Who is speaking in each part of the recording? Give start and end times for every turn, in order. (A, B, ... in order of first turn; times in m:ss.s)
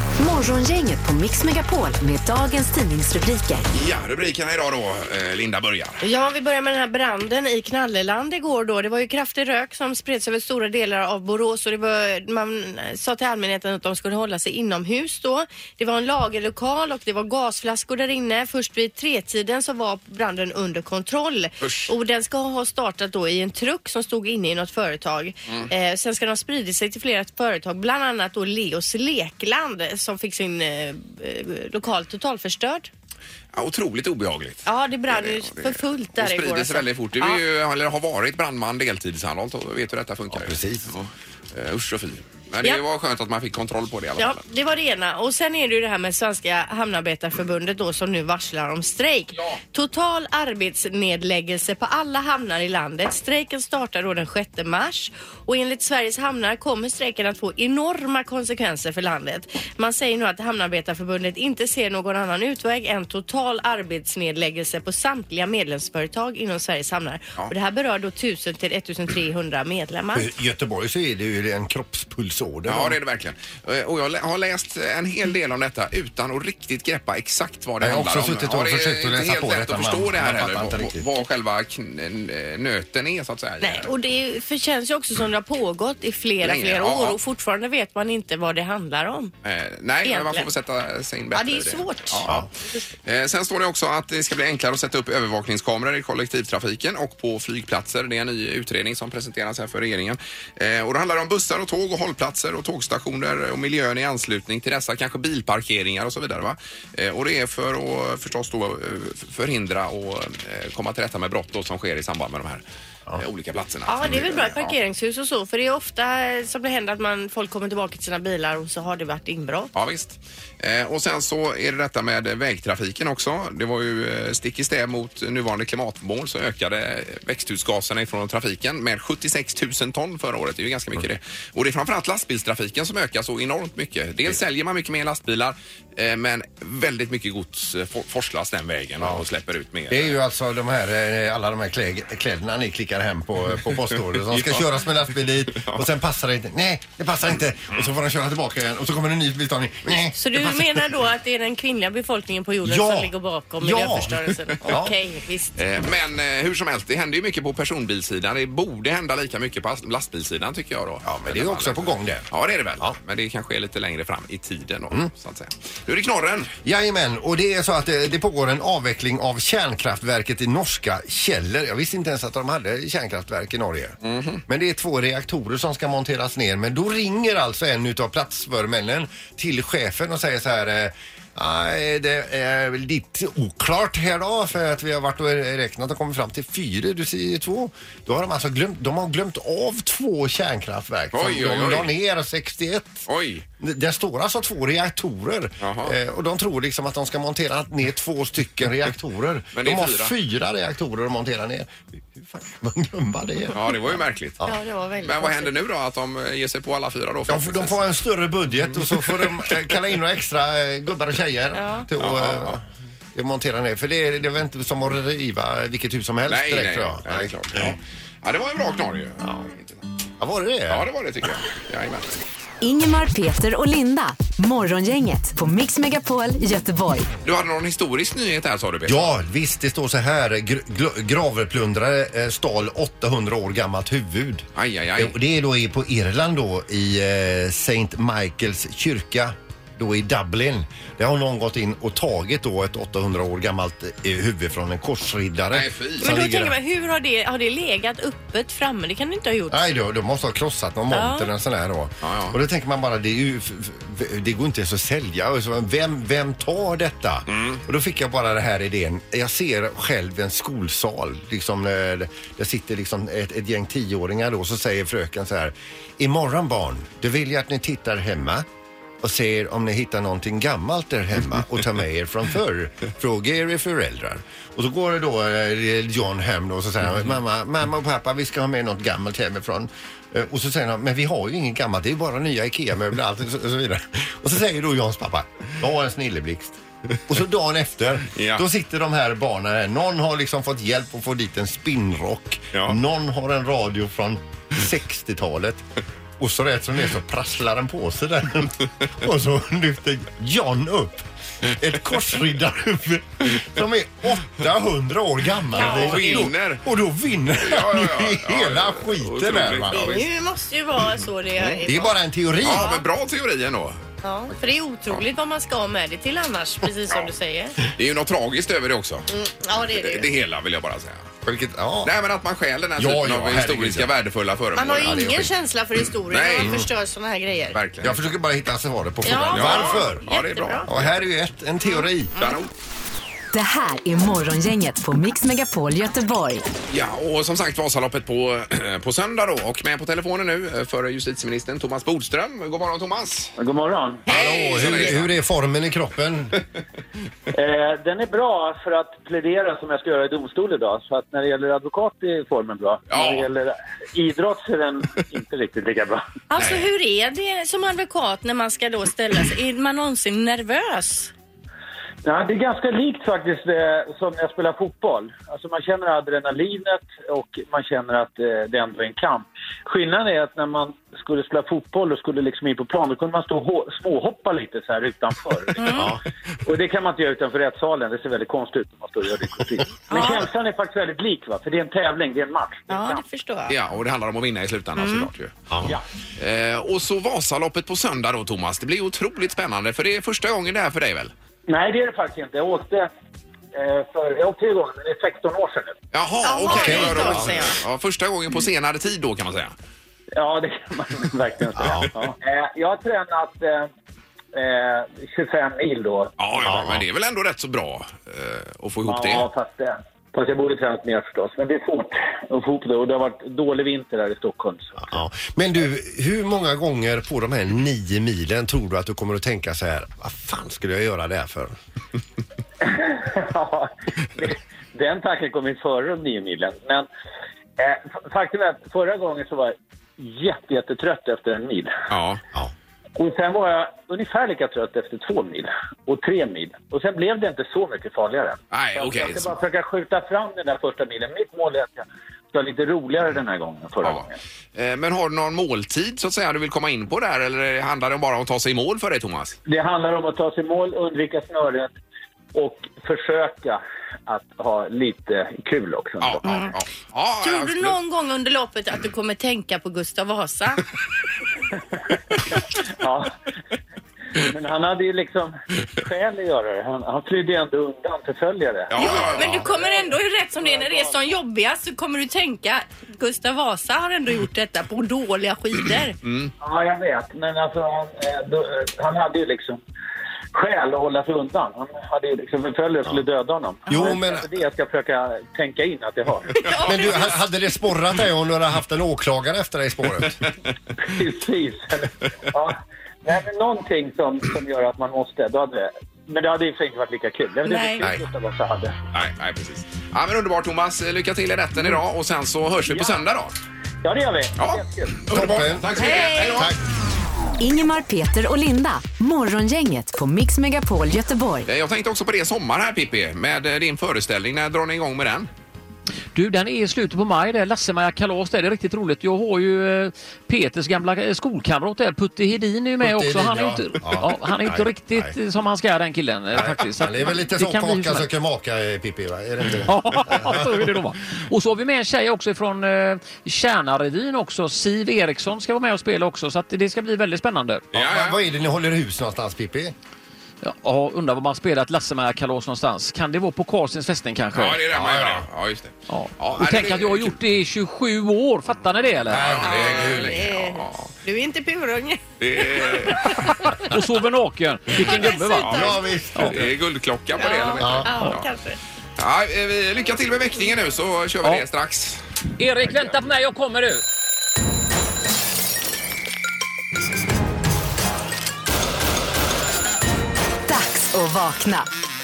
0:00.2-0:03.6 A
0:03.7-0:06.0 B
0:06.0-0:32.9 C
0:21.6-0:21.9 B
0:33.5-0:44.4 B
0:34.6-0:37.4 C
0:40.3-0:40.9 D
0:44.2-1:10.3 C
1:10.1-1:13.0 D
1:12.6-1:23.9 B
1:17.8-1:21.0 D
1:23.6-1:29.3 C
1:26.4-1:27.2 B
1:29.4-1:32.5 B
1:30.0-1:30.5 C
1:31.3-1:32.8 C
1:33.0-1:52.6 B
1:53.1-1:54.7 B
1:53.9-1:59.7 C
1:59.7-2:20.1 B
2:19.9-2:30.9 D
2:24.1-2:24.9 B
2:25.5-2:25.8 B
2:30.2-2:35.6 C
2:32.6-2:34.9 D
2:35.6-2:46.5 B
2:41.1-2:42.3 D
2:46.6-3:13.0 D
2:54.0-2:54.4 B
3:11.1-3:11.9 B
3:13.1-3:13.4 B
3:13.6-3:23.8 D
3:15.6-3:15.9 B
3:19.5-3:20.1 B
3:23.5-3:24.4 B
3:24.4-3:25.5 C
3:25.0-3:27.8 B
3:27.3-3:32.6 D
3:28.9-3:29.4 B
3:31.5-3:31.8 C
3:32.0-3:32.6 B
3:33.1-3:37.8 D
3:36.3-3:39.8 B
3:40.2-3:40.9 D
3:40.7-3:42.2 B
3:42.6-3:47.1 A
3:47.2-3:49.1 B
3:48.8-3:54.4 D
3:54.6-3:55.1 B
3:55.0-4:06.6 D
4:05.5-4:06.1 B
4:06.0-4:09.6 C
4:09.5-4:28.4 D
4:10.9-4:11.3 C
4:12.0-4:12.4 B
4:17.3-4:17.6 B
4:29.0-4:55.6 D
4:48.1-4:48.4 B
4:52.5-4:52.8 B
4:56.2-5:10.0 D
5:05.5-5:06.6 B
5:05.6-5:06.2 C
5:07.4-5:10.0 B
5:09.7-5:12.8 C
5:11.6-5:12.7 D
5:12.4-5:13.8 B
5:14.0-5:17.6 C
5:17.7-5:19.1 B
5:19.1-5:20.1 C
5:19.7-5:21.1 B
5:21.2-5:21.9 D
5:21.8-5:25.2 B
5:22.8-5:23.9 D
5:24.6-5:27.6 C
5:24.8-5:25.3 D
5:26.1-5:26.6 B
5:26.4-5:26.6 D
5:27.5-5:28.0 B
5:27.8-5:30.0 D
5:29.0-5:30.7 C
5:29.3-5:31.0 B
5:30.7-5:32.1 D
5:32.1-5:32.4 C
5:32.2-5:32.5 B
5:33.3-5:36.4 A
5:36.7-5:43.3 B
5:43.4-5:44.0 E
5:44.1-5:45.1 B
5:44.1-5:46.4 D
5:44.1-5:44.9 C
5:47.3-5:56.0 E
5:52.9-5:53.3 B
5:56.3-6:01.1 C
5:56.4-5:56.7 B
6:02.0-6:15.9 E
6:15.6-6:15.9 C
6:16.4-6:23.0 E
6:19.9-6:20.3 C
6:22.7-6:23.6 C
6:23.5-6:25.5 B
6:24.8-6:25.1 C
6:26.2-6:31.1 B
6:31.5-6:32.9 E
6:33.5-6:35.8 E
6:35.9-6:39.5 B
6:36.2-6:37.6 C
6:36.4-6:37.4 D
6:40.1-6:43.7 E
6:41.6-6:41.9 D
6:44.3-6:46.1 E
6:46.2-6:49.3 B
6:46.4-6:46.8 D
6:48.8-6:55.0 E
6:54.8-7:01.5 D
7:02.6-7:06.9 E
7:07.6-7:11.7 E
7:11.9-7:12.2 B
7:13.0-7:24.2 E
7:18.5-7:19.3 B
7:23.8-7:29.4 B
7:29.4-7:31.7 E
7:32.3-7:36.4 E
7:36.0-7:37.8 B
7:36.2-7:36.5 C
7:37.2-7:40.6 C
7:42.7-7:43.1 E
7:44.2-7:51.1 E
7:48.7-7:49.5 B
7:48.7-7:56.0 C
7:56.0-7:56.3 B
7:56.4-7:59.6 E
8:00.3-8:06.3 E
8:03.7-8:04.0 C
8:03.7-8:04.3 D
8:06.3-8:07.1 C
8:06.4-8:07.0 B
8:06.6-8:10.2 D
8:10.8-8:18.8 E
8:17.4-8:17.9 C
8:18.9-8:23.3 B
8:22.7-8:23.0 E
8:23.8-8:25.0 E
8:24.4-8:26.5 B
8:25.1-8:26.6 D
8:25.8-8:26.5 C
8:27.4-8:31.5 A
8:31.4-8:35.3 B
8:36.1-8:48.1 F
8:42.8-8:45.1 D
8:46.3-8:50.6 D
8:49.6-8:57.7 F
8:57.7-8:59.7 D
8:57.7-8:58.2 B
9:00.4-9:04.6 F
9:04.3-9:07.2 B
9:04.7-9:05.2 D
9:05.9-9:09.4 F
9:09.1-9:10.2 D
9:09.1-9:10.9 B
9:09.4-9:12.0 C
9:12.2-9:13.2 B
9:12.5-9:13.4 C
9:13.6-9:15.6 F
9:14.7-9:15.9 C
9:15.5-9:16.5 D
9:16.1-9:16.4 F
9:16.2-9:18.2 B
9:17.2-9:18.6 C
9:17.6-9:17.9 D
9:19.0-9:22.0 B
9:22.4-9:23.8 F
9:30.5-9:31.7 A